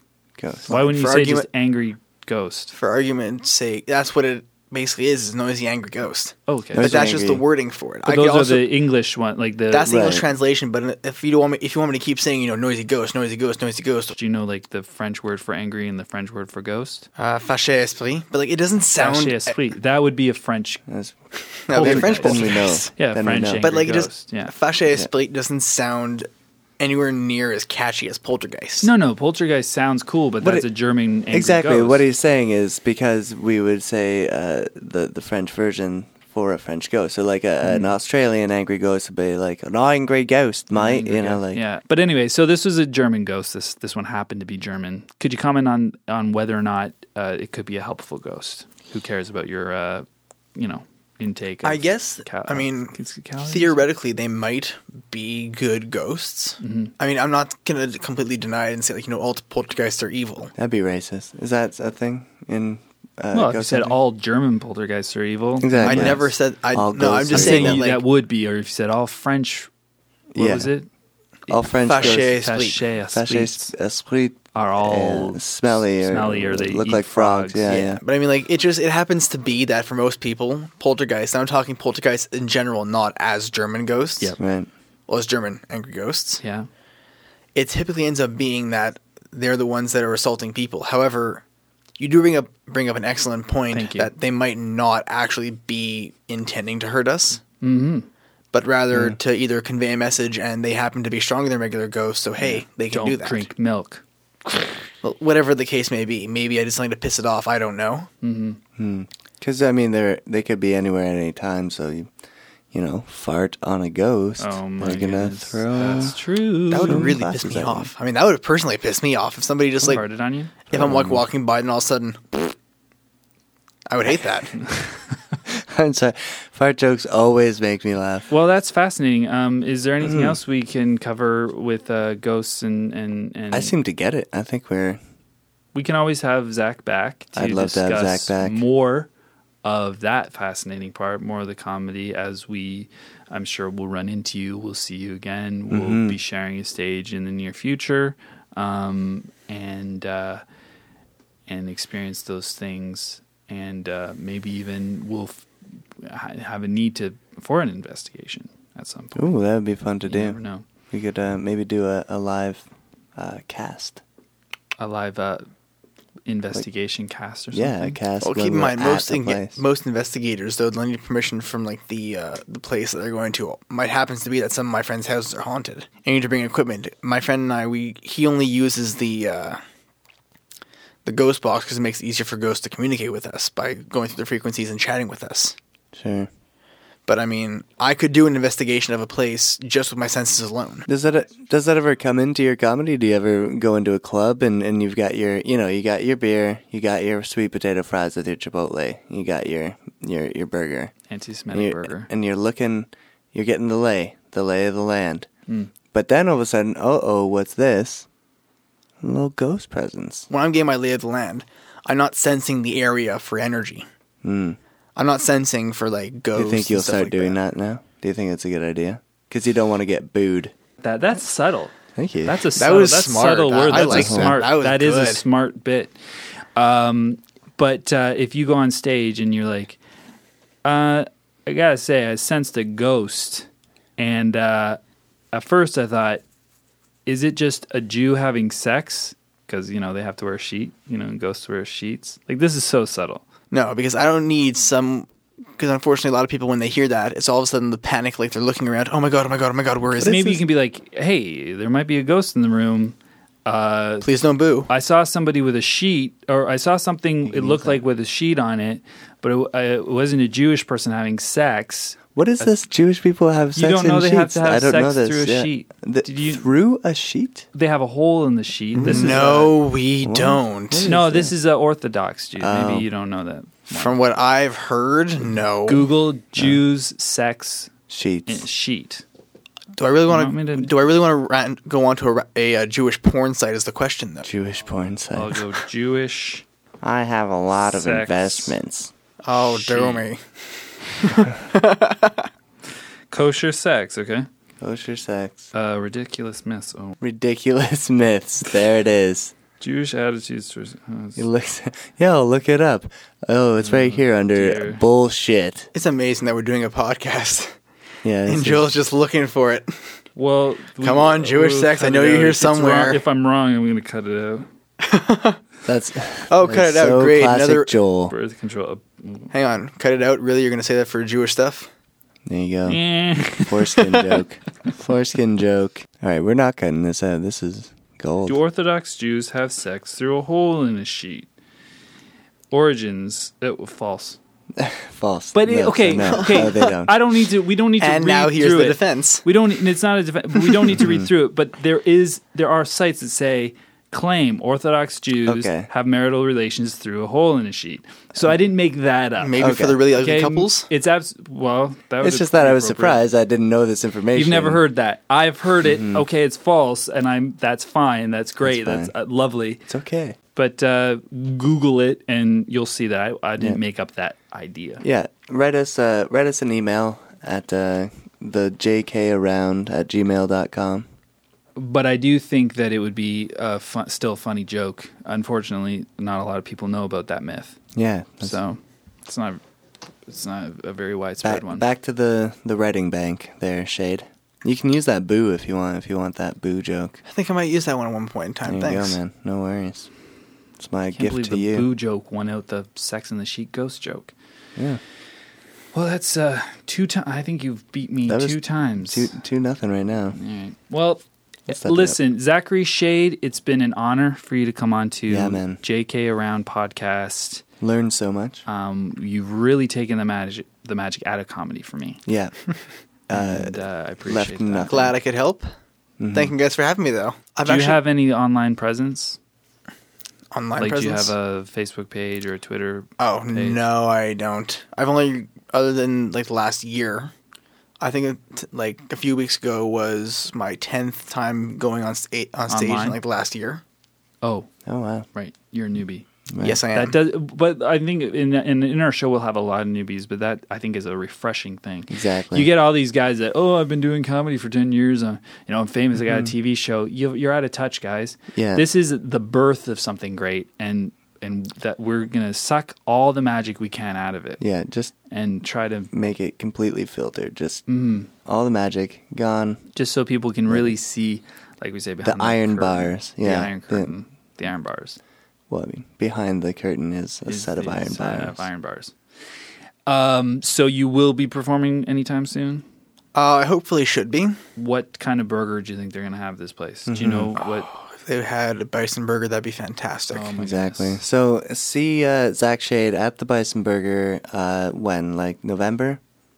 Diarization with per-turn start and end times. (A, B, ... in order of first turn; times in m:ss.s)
0:00.4-0:00.7 A
0:00.7-0:01.5 B
0:00.7-0:02.7 C
0:02.7-0:08.7 B
0:06.5-0:07.1 C
0:06.7-0:07.4 A
0:08.1-0:10.0 C
0:09.7-0:14.2 B
0:09.8-0:10.3 A
0:14.1-0:17.1 C
0:17.2-0:19.6 B
0:19.0-0:20.8 C
0:20.9-0:21.2 A
0:21.7-0:22.9 B
0:21.7-0:24.5 C
0:21.8-0:23.7 A
0:23.6-0:26.3 B
0:26.8-0:28.9 B
0:28.8-0:32.0 C
0:30.4-0:30.7 A
0:31.3-0:41.6 A
0:37.6-0:37.9 C
0:40.8-0:53.8 C
0:51.6-1:00.5 B
0:56.6-0:56.9 C
1:00.6-1:04.0 A
1:03.3-1:06.3 C
1:05.6-1:07.8 A
1:05.8-1:08.0 B
1:07.3-1:09.7 C
1:10.3-1:10.7 A
1:10.4-1:10.9 C
1:11.5-1:12.3 A
1:11.5-1:13.7 C
1:11.8-1:12.8 B
1:13.1-1:18.0 A
1:14.5-1:17.6 C
1:17.6-1:24.4 B
1:24.4-1:24.7 A
1:25.1-1:26.4 B
1:26.4-1:26.7 C
1:27.6-1:31.4 B
1:32.0-1:37.4 B
1:33.7-1:34.1 C
1:37.6-1:38.1 C
1:38.5-1:43.5 B
1:38.9-1:39.2 A
1:42.4-1:44.0 C
1:45.0-1:48.1 B
1:48.2-1:48.6 C
1:48.8-1:52.1 A
1:52.7-1:56.2 A
1:54.4-1:57.1 C
1:56.7-2:00.0 B
1:56.8-1:57.9 A
1:59.8-2:00.5 C
2:00.7-2:02.5 B
2:00.7-2:01.2 A
2:03.9-2:04.6 B
2:04.6-2:04.9 C
2:05.5-2:08.3 A
2:08.3-2:13.7 C
2:10.0-2:10.4 A
2:13.5-2:15.0 A
2:15.7-2:19.1 C
2:17.3-2:18.6 A
2:19.6-2:30.4 C
2:25.7-2:26.2 A
2:31.5-2:39.3 C
2:39.2-2:40.4 A
2:40.0-2:40.6 C
2:40.9-2:42.6 A
2:43.2-2:44.0 A
2:44.8-2:45.5 C
2:46.3-2:48.0 C
2:47.5-2:49.6 A
2:48.2-2:59.6 B
3:01.0-3:05.6 B
3:05.9-3:06.3 A
3:07.1-3:10.9 B
3:10.9-3:20.9 A
3:21.1-3:22.1 C
3:21.5-3:25.3 A
3:25.9-3:28.1 A
3:29.0-3:30.3 A
3:30.3-3:33.8 B
3:34.2-3:34.6 A
3:35.0-3:37.4 B
3:36.3-3:40.5 A
3:40.8-3:45.9 C
3:42.0-3:42.4 A
3:42.5-3:45.2 B
3:43.7-3:44.4 A
3:46.6-3:49.8 C
3:50.6-3:54.8 C
3:55.3-3:56.2 C
3:57.1-4:03.2 C
4:03.5-4:10.2 B
4:10.0-4:10.4 A
4:10.0-4:14.1 C
4:14.0-4:14.7 B
4:14.7-4:22.5 C
4:17.2-4:17.8 A
4:22.1-4:27.5 A
4:23.6-4:26.4 C
4:27.5-4:29.6 C
4:28.8-4:30.9 B
4:28.9-4:29.2 A
4:30.0-4:31.3 A
4:30.8-4:34.0 C
4:32.4-4:32.9 A
4:33.7-4:35.9 B
4:35.7-4:37.7 C
4:36.4-4:36.6 A
4:37.9-4:38.5 A
4:38.3-4:39.0 C
4:39.8-4:44.3 B
4:40.1-4:40.7 C
4:44.2-4:45.4 A
4:45.1-4:46.4 C
4:46.8-4:48.9 A
4:47.6-4:48.6 C
4:49.2-4:52.3 B
4:49.4-4:50.1 C
4:53.1-4:54.3 C
4:54.6-4:55.5 A
4:55.5-4:57.0 C
4:57.0-4:59.3 A
4:59.6-5:01.3 C
5:01.2-5:05.7 A
5:03.6-5:04.8 C
5:05.7-5:07.5 B
5:08.0-5:08.7 A
5:08.3-5:09.9 B
5:10.2-5:14.5 C
5:10.8-5:13.0 B
5:14.8-5:15.4 B
5:15.6-5:18.1 A
5:16.3-5:17.8 B
5:18.1-5:19.3 C
5:19.3-5:21.7 B
5:22.3-5:28.4 A
5:22.7-5:23.8 C
5:23.8-5:24.2 B
5:28.3-5:31.3 C
5:32.5-5:34.2 C
5:34.6-5:36.9 A
5:35.3-5:53.0 C
5:36.1-5:36.7 B
5:37.8-5:39.3 B
5:40.8-5:41.1 A
5:45.2-5:45.7 A
5:49.2-5:50.7 B
5:49.4-5:49.8 A
5:52.0-5:54.6 A
5:54.1-5:59.7 C
5:55.6-5:56.0 A
5:58.4-5:58.9 A
5:59.7-6:00.2 A
6:00.4-6:04.8 C
6:04.8-6:10.9 A
6:11.6-6:17.6 C
6:17.7-6:18.4 A
6:18.2-6:19.4 C
6:20.1-6:21.7 C
6:21.2-6:27.0 A
6:27.0-6:29.0 B
6:28.5-6:29.9 A
6:30.6-6:31.7 A
6:30.9-6:34.1 C
6:35.7-6:39.2 C
6:38.1-6:40.2 A
6:40.1-6:47.4 C
6:41.5-6:42.0 A
6:45.1-6:45.6 A
6:47.6-6:48.4 A
6:48.5-6:52.0 C
6:52.1-6:52.4 A
6:53.1-6:54.9 A
6:53.1-6:54.9 C
6:54.7-6:55.5 B
6:56.0-6:56.3 A
6:56.1-6:57.8 B
6:57.4-6:59.2 C
7:00.3-7:01.1 B
7:00.6-7:03.6 C
7:03.0-7:07.1 B
7:07.8-7:13.6 B
7:12.5-7:13.0 C
7:14.2-7:14.5 C
7:14.6-7:15.1 A
7:15.1-7:16.1 C
7:16.3-7:16.6 A
7:16.4-7:17.0 B
7:16.7-7:34.4 C
7:21.9-7:22.5 A
7:26.0-7:26.3 A
7:28.3-7:28.7 A
7:34.4-7:34.9 A
7:35.1-7:35.9 C
7:35.9-7:39.6 A
7:37.7-7:38.1 C
7:39.7-7:45.0 C
7:40.5-7:40.7 A
7:42.0-7:43.9 A
7:45.5-7:48.4 A
7:47.3-7:49.0 C
7:49.9-7:52.6 C
7:53.2-7:54.4 B
7:54.6-7:57.7 C
7:56.9-7:57.3 A
7:57.4-8:00.3 B
8:00.1-8:01.0 C
8:00.4-8:06.0 A